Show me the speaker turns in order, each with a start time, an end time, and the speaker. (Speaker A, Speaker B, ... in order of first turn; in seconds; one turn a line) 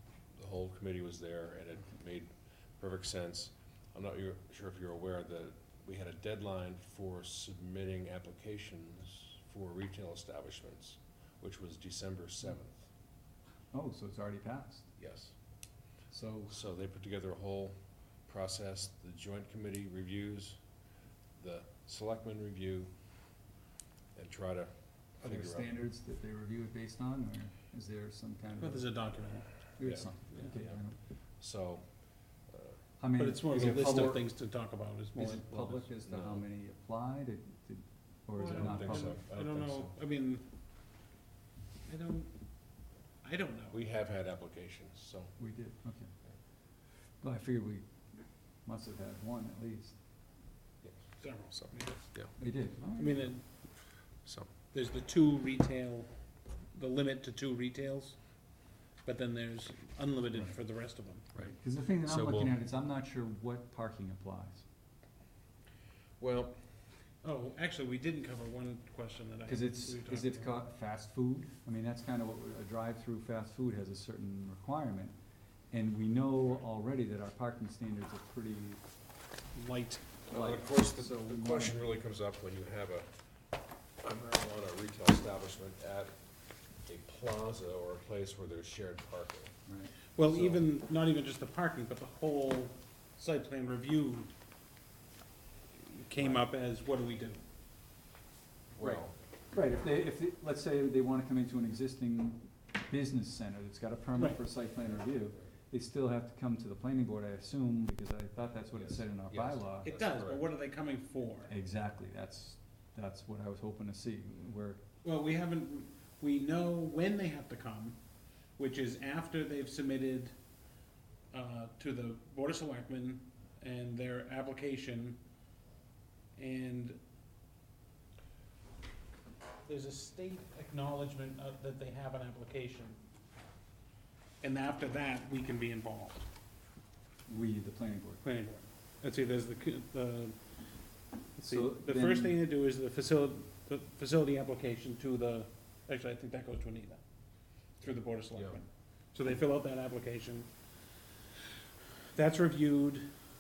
Speaker A: 0.4-12.9
Speaker B: 13.7-14.9
Speaker A: 15.0-15.3
Speaker B: 16.1-16.5
Speaker A: 16.5-20.6
Speaker A: 21.4-22.9
Speaker A: 24.1-25.7
Speaker B: 25.2-28.9
Speaker C: 28.6-29.5
Speaker B: 29.8-31.0
Speaker A: 29.8-30.8
Speaker A: 31.4-31.9
Speaker A: 32.5-32.8
Speaker B: 33.0-34.2
Speaker C: 33.2-35.9
Speaker A: 33.4-34.2
Speaker B: 35.2-39.9
Speaker A: 36.1-36.5
Speaker C: 38.4-40.5
Speaker A: 38.5-39.8
Speaker C: 41.9-42.3
Speaker C: 43.2-43.8
Speaker A: 43.7-45.3
Speaker B: 45.4-46.1
Speaker B: 47.2-47.9
Speaker B: 48.6-50.0
Speaker A: 50.8-52.3
Speaker C: 51.2-52.0
Speaker B: 52.4-53.3
Speaker C: 53.0-53.5
Speaker A: 54.3-54.5
Speaker C: 54.7-56.1
Speaker C: 56.7-58.2
Speaker C: 59.0-61.3
Speaker B: 61.4-64.7
Speaker A: 62.0-62.6
Speaker A: 66.2-66.6
Speaker C: 67.2-70.6
Speaker B: 69.5-75.2
Speaker B: 75.7-78.8
Speaker C: 79.5-80.2
Speaker A: 80.3-83.1
Speaker B: 80.3-81.8
Speaker A: 84.0-86.1
Speaker A: 86.9-89.5
Speaker B: 89.7-89.9
Speaker C: 90.2-94.3
Speaker A: 90.3-90.7
Speaker C: 95.8-97.4
Speaker B: 96.2-96.5
Speaker A: 98.8-99.1
Speaker B: 98.8-109.9
Speaker A: 109.3-110.5
Speaker C: 109.8-111.5
Speaker B: 111.5-114.8
Speaker C: 115.0-118.0
Speaker C: 118.6-120.3
Speaker C: 121.3-125.2
Speaker C: 126.4-127.0
Speaker C: 129.7-133.0
Speaker C: 134.4-136.3
Speaker B: 137.3-138.2
Speaker C: 138.2-140.4
Speaker C: 141.4-147.0
Speaker B: 141.5-142.4
Speaker C: 147.8-150.5
Speaker C: 152.1-153.1